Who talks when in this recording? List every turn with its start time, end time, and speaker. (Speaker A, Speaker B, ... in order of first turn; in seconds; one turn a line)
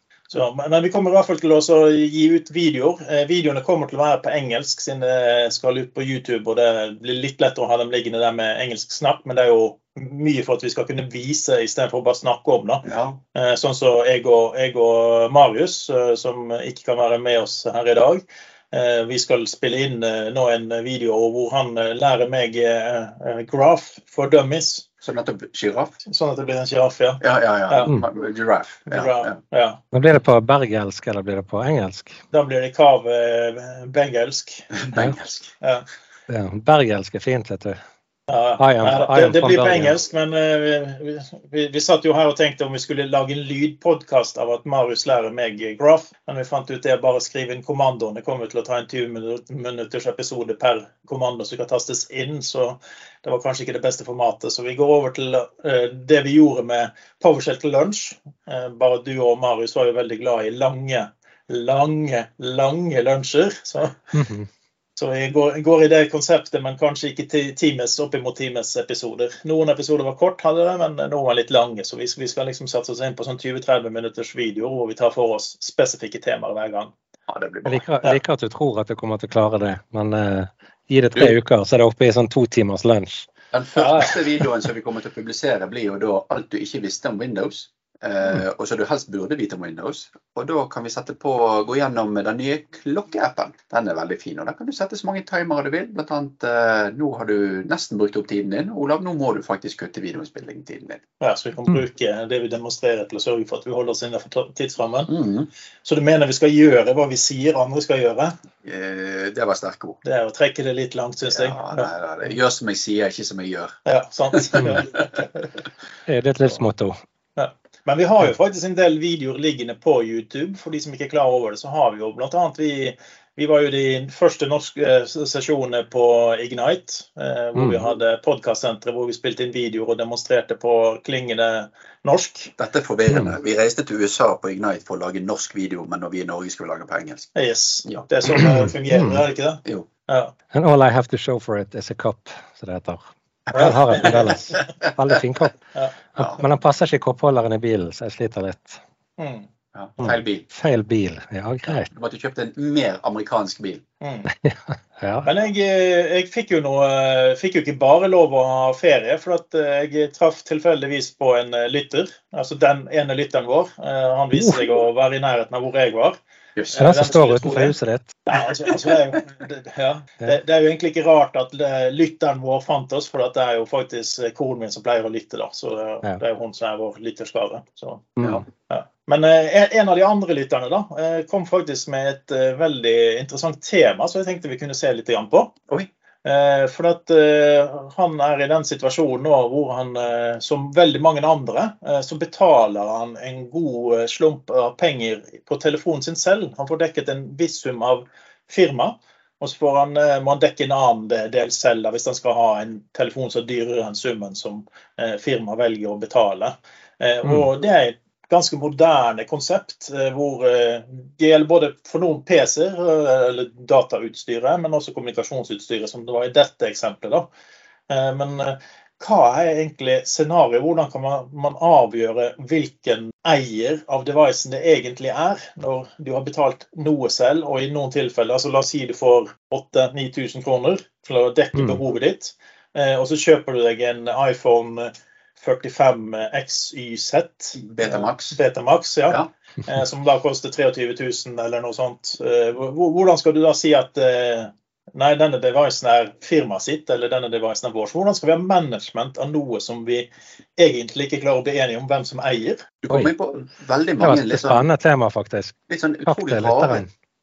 Speaker A: 0.3-24.8
Speaker B: 12.8-13.2
Speaker B: 25.0-26.0
Speaker A: 26.1-27.9
Speaker B: 27.2-29.4
Speaker A: 28.9-29.8
Speaker C: 29.9-32.2
Speaker A: 32.3-34.7
Speaker B: 34.8-35.5
Speaker C: 36.3-37.8
Speaker A: 38.3-64.1
Speaker C: 38.6-39.9
Speaker C: 64.1-64.5
Speaker A: 65.0-76.9
Speaker B: 77.3-77.8
Speaker C: 77.7-83.3
Speaker B: 83.5-101.0
Speaker A: 83.8-84.2
Speaker A: 101.2-105.1
Speaker B: 105.1-105.5
Speaker A: 105.8-108.3
Speaker B: 108.6-110.0
Speaker A: 110.0-111.9
Speaker B: 111.3-113.8
Speaker A: 113.8-115.5
Speaker B: 114.6-115.0
Speaker C: 116.1-117.0
Speaker A: 117.4-132.5
Speaker C: 127.6-127.8
Speaker B: 132.6-137.3
Speaker C: 133.1-133.3
Speaker A: 137.3-140.3
Speaker B: 137.8-138.1
Speaker C: 138.3-139.2
Speaker C: 140.5-145.6
Speaker B: 143.5-144.7
Speaker A: 143.6-144.5
Speaker C: 146.2-148.8
Speaker A: 149.2-149.5
Speaker B: 149.7-150.5
Speaker C: 150.0-151.9
Speaker B: 151.8-153.8
Speaker A: 154.0-154.3
Speaker C: 154.4-155.3
Speaker A: 155.2-166.2
Speaker C: 164.3-164.6
Speaker B: 166.6-166.9
Speaker A: 166.7-178.1
Speaker C: 166.8-168.2
Speaker C: 178.2-178.4
Speaker B: 178.2-178.4
Speaker A: 178.7-185.5
Speaker A: 186.2-217.3
Speaker A: 217.9-252.6
Speaker B: 237.6-238.4
Speaker B: 252.8-254.7
Speaker C: 254.0-255.5
Speaker B: 255.7-256.8
Speaker C: 256.1-256.9